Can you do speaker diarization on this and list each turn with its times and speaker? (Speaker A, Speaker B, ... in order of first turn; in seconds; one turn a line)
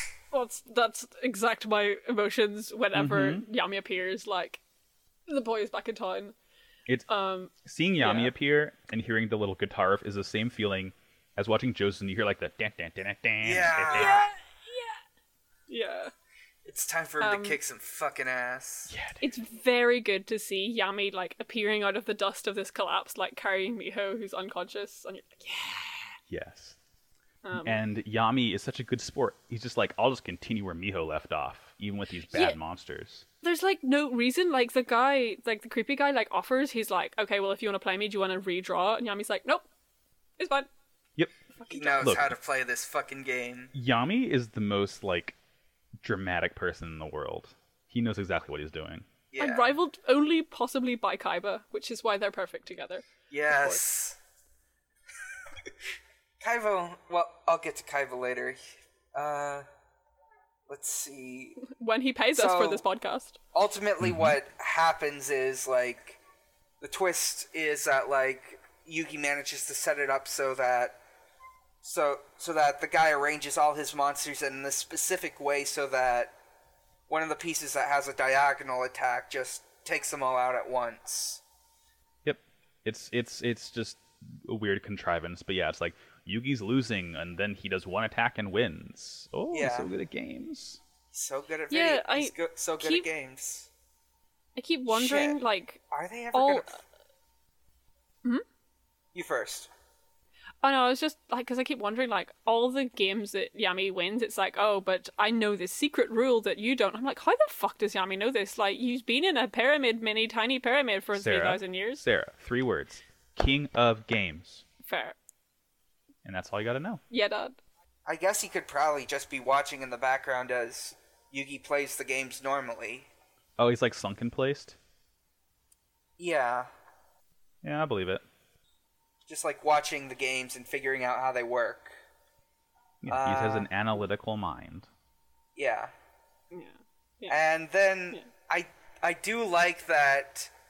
Speaker A: 0.3-4.6
Speaker B: 2.9-3.4
Speaker A: 5.3-6.3
Speaker A: 7.1-8.3
Speaker B: 7.6-14.2
Speaker C: 13.4-14.3
Speaker A: 13.9-15.0
Speaker A: 15.7-16.1
Speaker C: 16.6-18.9
Speaker A: 17.2-17.6
Speaker B: 18.9-19.2
Speaker A: 19.2-26.2
Speaker B: 26.3-26.8
Speaker A: 27.4-27.8
Speaker B: 27.6-33.2
Speaker A: 32.3-32.6
Speaker A: 33.4-39.7
Speaker A: 40.4-40.7
Speaker A: 41.5-42.2
Speaker C: 41.7-43.7
Speaker B: 42.0-42.3
Speaker B: 43.7-45.4
Speaker B: 46.0-49.1
Speaker C: 49.3-49.7
Speaker A: 49.4-53.8
Speaker C: 53.3-54.2
Speaker C: 56.4-58.6
Speaker C: 59.1-59.7
Speaker C: 60.7-61.6
Speaker A: 61.6-63.4
Speaker C: 62.4-62.8
Speaker C: 63.5-66.2
Speaker B: 64.0-64.3
Speaker C: 66.8-71.0
Speaker C: 71.8-76.3
Speaker C: 77.1-81.4
Speaker B: 82.2-90.8
Speaker C: 89.5-89.9
Speaker C: 91.1-93.7
Speaker A: 91.7-93.1
Speaker A: 94.6-95.8
Speaker C: 94.9-95.4
Speaker C: 95.9-96.8
Speaker A: 96.3-96.8
Speaker C: 99.1-99.7
Speaker A: 100.6-112.0
Speaker B: 111.2-114.7
Speaker A: 114.8-115.2
Speaker B: 116.2-117.0
Speaker A: 117.1-117.6
Speaker C: 118.1-123.1
Speaker B: 123.6-124.8
Speaker C: 126.2-126.7
Speaker B: 127.6-128.2
Speaker C: 129.3-131.9
Speaker B: 133.0-134.9
Speaker C: 133.1-133.7
Speaker C: 135.6-135.9
Speaker A: 136.5-137.4
Speaker C: 137.3-140.5